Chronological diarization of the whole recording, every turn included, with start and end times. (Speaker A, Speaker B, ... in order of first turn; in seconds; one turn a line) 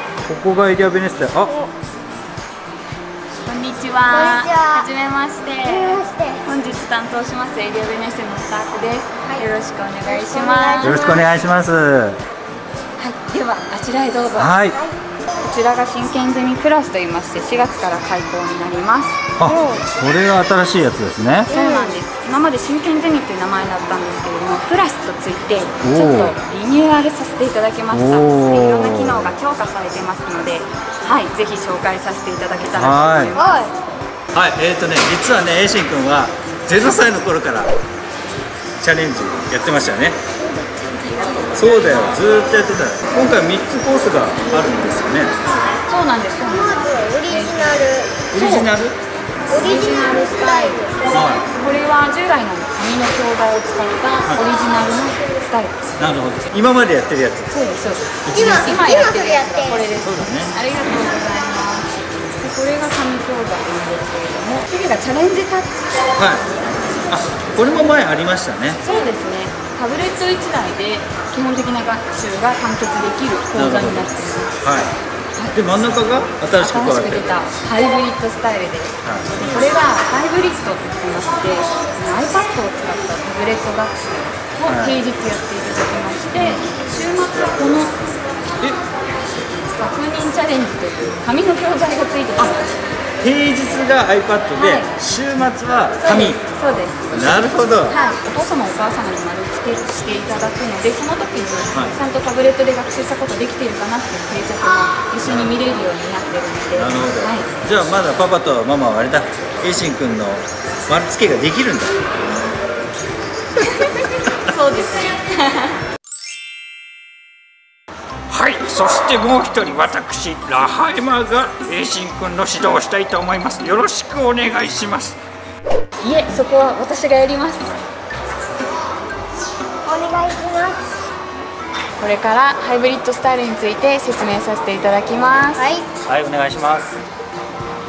Speaker A: 0.2-1.5
Speaker B: 3.4-11.1
Speaker C: 4.1-4.9
Speaker C: 5.6-6.5
Speaker C: 10.1-11.2
Speaker A: 10.8-12.2
Speaker B: 13.0-14.6
Speaker A: 14.3-14.8
Speaker B: 15.4-19.2
Speaker A: 19.4-21.5
Speaker C: 19.4-19.9
Speaker C: 21.5-22.0
Speaker B: 21.5-33.6
Speaker A: 25.8-26.4
Speaker A: 27.9-29.3
Speaker A: 32.8-33.4
Speaker C: 33.4-33.7
Speaker A: 34.3-37.7
Speaker A: 38.8-40.2
Speaker C: 40.4-42.6
Speaker A: 41.5-45.3
Speaker B: 45.9-47.8
Speaker C: 46.5-48.2
Speaker A: 48.3-49.0
Speaker B: 48.3-48.7
Speaker C: 49.5-51.1
Speaker B: 49.5-55.8
Speaker A: 51.1-51.5
Speaker A: 56.0-57.5
Speaker B: 57.5-65.9
Speaker A: 58.3-58.8
Speaker C: 58.3-59.9
Speaker A: 60.0-60.5
Speaker A: 66.2-66.5
Speaker A: 67.1-68.8
Speaker B: 68.8-74.6
Speaker A: 73.5-74.1
Speaker A: 74.6-75.0
Speaker A: 75.5-77.3
Speaker B: 76.6-88.0
Speaker A: 79.0-79.5
Speaker A: 84.7-85.0
Speaker A: 86.3-86.7
Speaker B: 89.8-92.7
Speaker A: 93.2-96.4
Speaker B: 94.6-94.9
Speaker B: 96.0-97.0
Speaker A: 97.1-98.0
Speaker B: 97.9-107.5
Speaker A: 101.7-102.0
Speaker A: 105.2-105.5
Speaker A: 106.7-112.0
Speaker B: 113.6-115.8
Speaker A: 118.3-125.2
Speaker B: 126.0-127.8
Speaker C: 129.9-131.0
Speaker B: 132.0-135.7
Speaker C: 135.6-135.8
Speaker A: 136.1-137.0